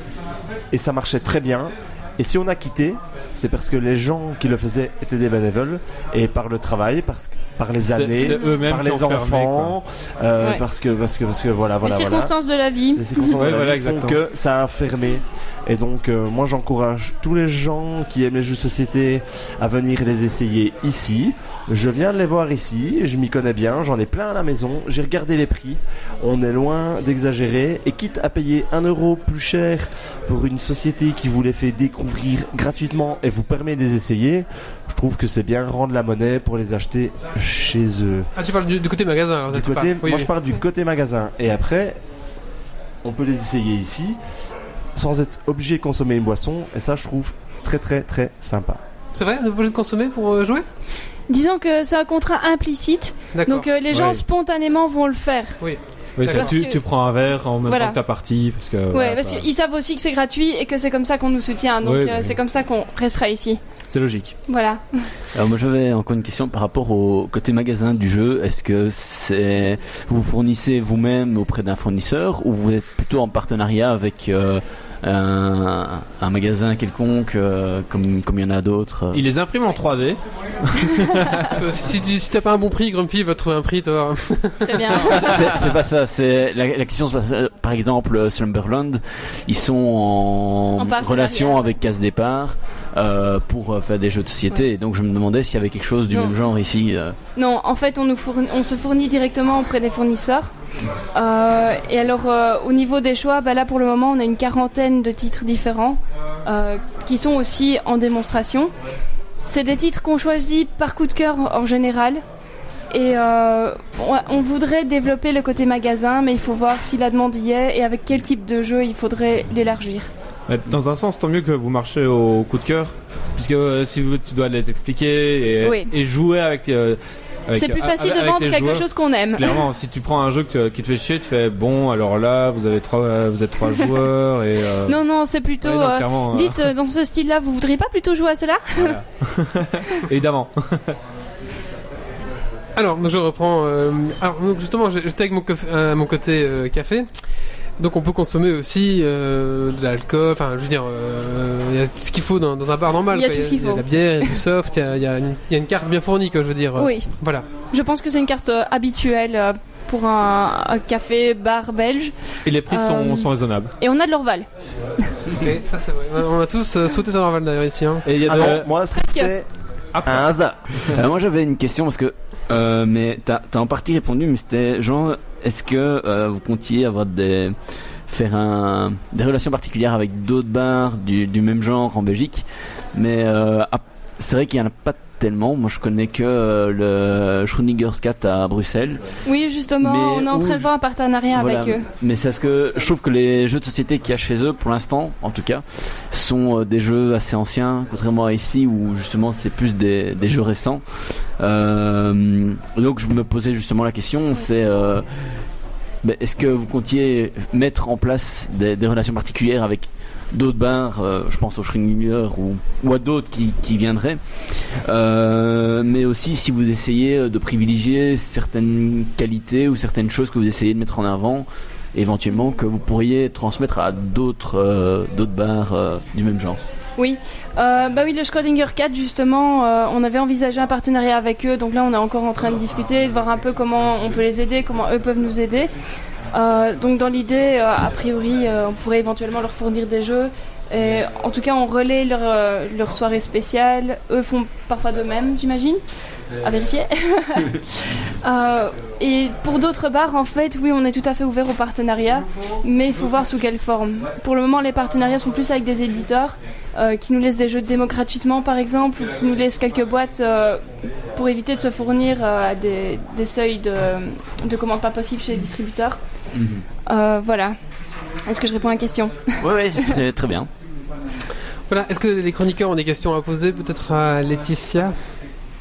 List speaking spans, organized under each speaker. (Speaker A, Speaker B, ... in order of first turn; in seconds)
Speaker A: 0.7-12.3, 12.9-38.3, 39.5-42.0, 43.0-44.2, 44.9-48.8, 168.2-169.5, 170.0-170.8
Speaker B: 7.8-9.7, 13.3-14.2, 53.9-54.2, 56.2-59.5, 61.8-62.3, 63.9-64.3, 79.1-81.5, 120.5-135.0, 135.6-136.6, 138.7-140.9, 162.4-163.7, 168.0-168.7
Speaker C: 10.4-10.6, 11.8-13.2, 51.3-55.6, 56.2-56.8, 57.6-58.0, 58.9-63.6, 64.5-65.1, 84.6-85.6, 90.8-91.7, 96.1-96.4, 97.3-100.5, 101.1-108.7, 109.4-112.2, 112.9-120.1, 125.6-125.9, 127.5-129.6, 134.8-139.0, 153.1-154.3, 156.8-157.1, 157.7-162.1, 162.7-164.5, 168.9-169.3, 189.2-191.8, 227.0-235.7, 236.3-245.8, 246.4-260.6, 261.1-266.0, 266.9-267.6, 268.3-269.9
Speaker D: 38.4-40.3, 49.1-50.6, 53.3-53.6, 55.6-56.5, 81.5-85.0, 142.8-147.1, 147.8-157.4, 165.3-168.1, 271.7-274.9
Speaker E: 65.3-79.2, 85.0-97.2, 170.9-177.6, 178.1-189.0, 189.8-190.7, 191.3-200.8, 201.4-205.1, 206.0-214.2, 214.8-226.6, 266.3-266.6, 269.4-270.5